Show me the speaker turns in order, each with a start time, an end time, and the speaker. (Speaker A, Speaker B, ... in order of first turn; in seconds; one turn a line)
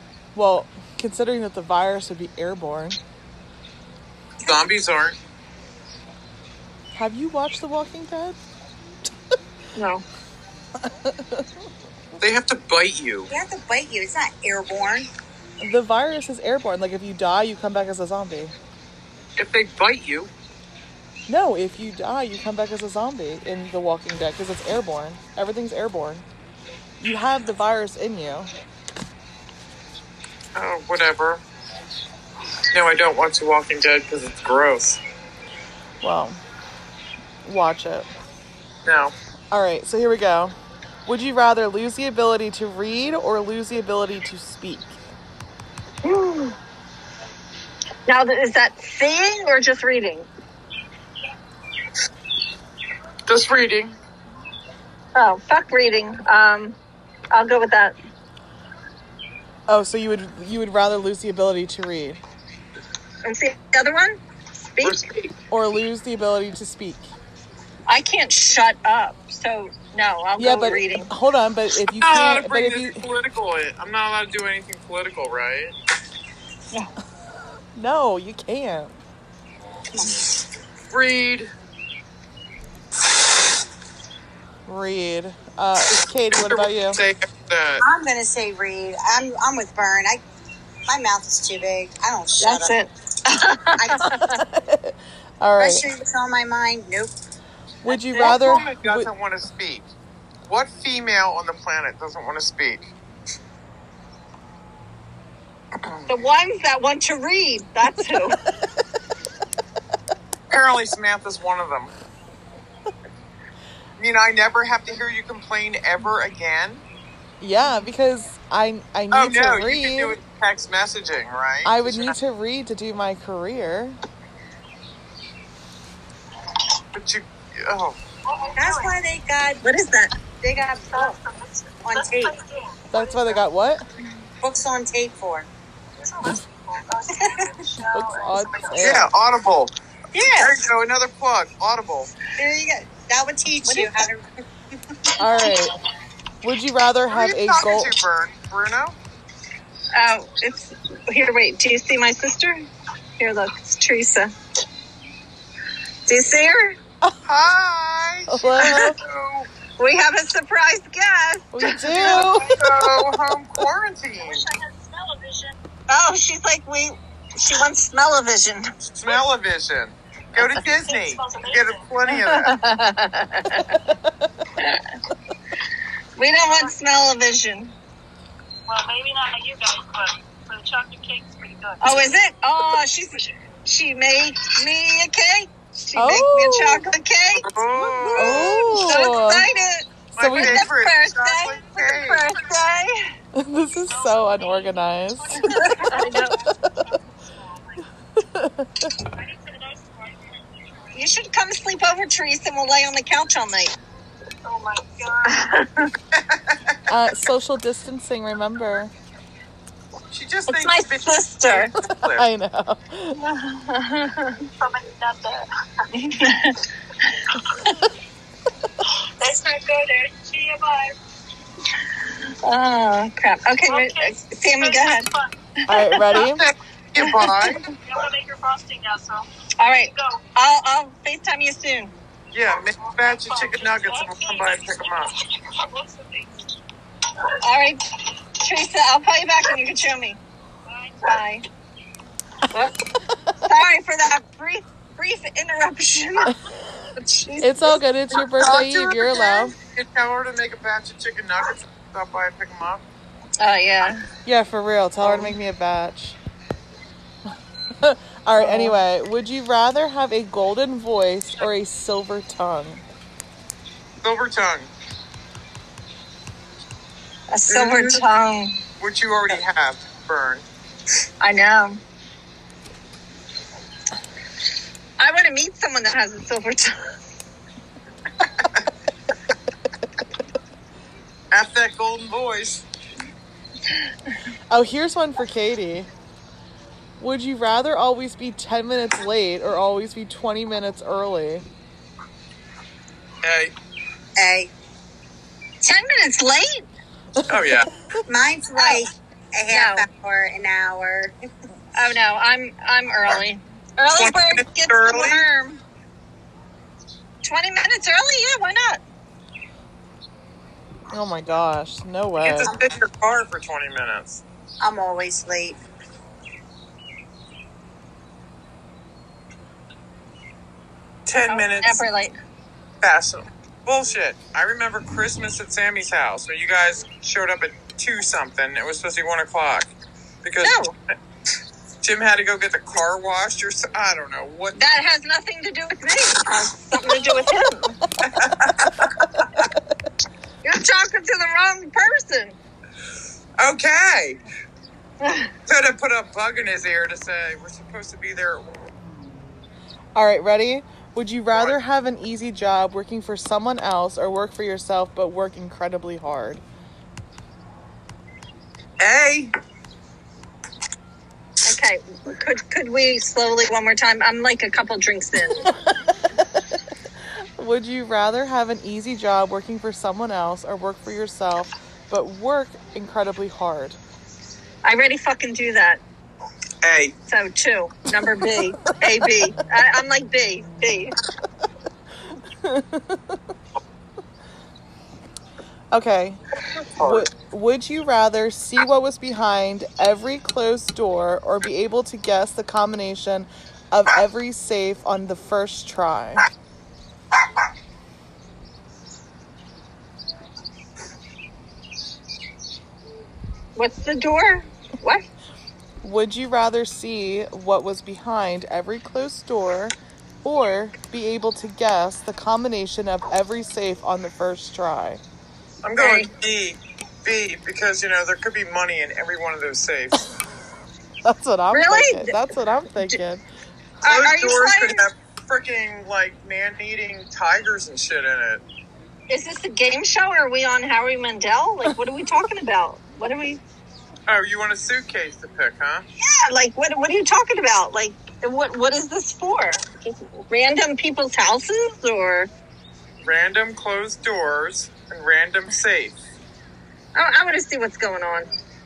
Speaker A: 0.3-3.0
Speaker B: 4.4-5.2
Speaker A: 6.9-8.4
Speaker C: 9.8-10.0
Speaker A: 10.8-11.5
Speaker B: 12.2-13.3
Speaker D: 13.3-15.1
Speaker A: 15.6-18.5
Speaker B: 19.4-20.3
Speaker A: 21.3-26.2
Speaker A: 27.0-28.5
Speaker B: 30.6-31.4
Speaker B: 32.7-35.0
Speaker A: 36.0-36.4
Speaker A: 37.4-38.1
Speaker B: 38.9-39.1
Speaker A: 39.5-45.0
Speaker C: 46.0-46.6
Speaker C: 48.1-50.3
Speaker B: 53.3-54.0
Speaker C: 55.1-56.8
Speaker C: 57.3-58.0
Speaker A: 59.7-62.2
Speaker C: 63.2-65.0
Speaker B: 64.8-65.3
Speaker A: 65.5-67.1
Speaker C: 67.9-71.1
Speaker A: 70.4-73.0
Speaker B: 72.0-75.8
Speaker A: 77.8-79.0
Speaker B: 80.9-81.5
Speaker A: 84.7-87.0
Speaker B: 86.3-87.8
Speaker D: 87.8-90.2
Speaker D: 90.9-92.8
Speaker C: 92.4-94.4
Speaker D: 93.8-94.2
Speaker A: 94.3-95.9
Speaker D: 95.6-97.2
Speaker A: 97.8-99.1
Speaker C: 97.9-98.4
Speaker B: 98.2-99.9
Speaker B: 100.5-102.9
Speaker C: 106.1-108.4
Speaker B: 110.5-111.9
Speaker B: 114.0-116.8
Speaker A: 117.4-120.2
Speaker B: 119.1-122.2
Speaker A: 121.6-124.0
Speaker B: 126.9-128.0
Speaker E: 128.2-129.0
Speaker D: 128.6-129.6
Speaker C: 129.6-130.2
Speaker D: 130.4-131.2
Speaker E: 130.9-133.4
Speaker D: 131.8-132.4
Speaker A: 132.9-133.8
Speaker D: 134.4-135.5
Speaker E: 136.0-139.0
Speaker A: 137.9-139.1
Speaker B: 138.8-142.1
Speaker C: 140.1-140.6
Speaker D: 142.4-144.4
Speaker C: 143.7-143.9
Speaker A: 145.2-145.7
Speaker A: 146.4-147.9
Speaker B: 147.1-149.0
Speaker C: 149.9-154.3
Speaker C: 156.1-156.8
Speaker B: 157.2-159.5
Speaker A: 158.3-159.0
Speaker C: 158.6-158.9
Speaker C: 159.8-162.2
Speaker A: 161.5-162.6
Speaker E: 162.0-163.1
Speaker B: 162.0-164.5
Speaker E: 164.2-165.6
Speaker C: 165.9-168.7
Speaker B: 169.0-172.6
Speaker E: 170.6-171.9
Speaker C: 172.1-173.8
Speaker C: 174.6-174.8
Speaker C: 176.2-177.8
Speaker E: 176.4-176.8
Speaker E: 178.7-183.3
Speaker C: 181.8-193.1
Speaker A: 185.9-186.9
Speaker B: 187.4-188.7
Speaker A: 188.2-189.4
Speaker E: 188.8-189.2
Speaker B: 190.2-192.3
Speaker A: 190.2-190.7
Speaker A: 193.3-195.9
Speaker E: 193.9-197.9
Speaker C: 195.4-196.4
Speaker A: 196.4-196.8
Speaker A: 198.2-198.9
Speaker E: 199.0-201.1
Speaker C: 200.9-203.8
Speaker E: 204.4-205.6
Speaker C: 205.3-205.9
Speaker B: 206.2-206.8
Speaker A: 206.9-208.9
Speaker B: 210.1-212.3
Speaker C: 210.5-211.7
Speaker A: 211.9-213.2
Speaker C: 213.2-214.4
Speaker E: 214.5-215.5
Speaker C: 215.9-216.6
Speaker E: 219.2-221.0
Speaker C: 222.4-225.1
Speaker E: 223.7-225.4
Speaker A: 225.7-226.4
Speaker C: 225.7-226.2
Speaker B: 226.2-227.7
Speaker C: 227.0-227.6
Speaker E: 227.7-229.2
Speaker C: 229.6-231.9
Speaker E: 229.9-230.2
Speaker B: 232.3-235.1
Speaker E: 232.8-236.4
Speaker C: 237.4-237.8
Speaker C: 238.4-240.2
Speaker E: 240.7-241.2
Speaker C: 241.0-241.4
Speaker C: 242.5-242.8
Speaker C: 243.4-246.4
Speaker C: 247.0-247.8
Speaker A: 247.4-249.6
Speaker B: 248.2-252.8
Speaker C: 253.4-254.1
Speaker A: 254.2-256.2
Speaker A: 257.8-262.8
Speaker C: 258.4-258.8
Speaker B: 264.0-264.7
Speaker C: 267.3-268.6
Speaker B: 267.5-268.0
Speaker B: 268.8-270.4
Speaker C: 271.2-271.8
Speaker C: 275.0-276.8
Speaker B: 281.3-282.6
Speaker A: 284.5-285.9
Speaker A: 287.0-291.4
Speaker B: 293.2-293.5
Speaker D: 294.2-294.5
Speaker C: 295.6-296.7
Speaker B: 297.3-297.7
Speaker D: 298.1-301.1
Speaker C: 298.6-298.9
Speaker C: 299.5-299.9
Speaker C: 301.7-305.6
Speaker B: 304.0-305.3
Speaker C: 307.2-308.8
Speaker A: 310.9-312.5
Speaker B: 312.2-314.2
Speaker D: 314.6-315.6
Speaker B: 321.1-321.9
Speaker C: 321.3-322.2
Speaker B: 322.8-329.7
Speaker B: 330.2-330.6
Speaker C: 330.4-330.8
Speaker B: 331.8-334.6
Speaker C: 334.6-337.8
Speaker B: 338.0-339.5
Speaker C: 340.4-342.4
Speaker B: 343.4-344.2
Speaker C: 345.0-345.3
Speaker B: 345.5-348.5
Speaker A: 349.9-356.4
Speaker B: 358.8-359.3
Speaker C: 361.4-365.5
Speaker A: 365.4-366.5
Speaker A: 367.4-373.8
Speaker C: 374.6-375.8
Speaker B: 376.6-376.9
Speaker C: 377.1-381.0
Speaker A: 382.4-383.2
Speaker A: 385.7-386.2
Speaker B: 386.8-387.1
Speaker A: 386.8-396.2
Speaker C: 403.6-405.0
Speaker A: 405.8-415.0
Speaker B: 415.6-420.0
Speaker C: 415.8-416.1
Speaker A: 421.0-423.2
Speaker C: 421.5-422.2
Speaker C: 423.8-424.9
Speaker B: 423.9-428.4
Speaker C: 429.1-433.4
Speaker B: 434.1-435.9
Speaker C: 436.0-442.3
Speaker B: 443.0-446.0
Speaker C: 446.9-448.3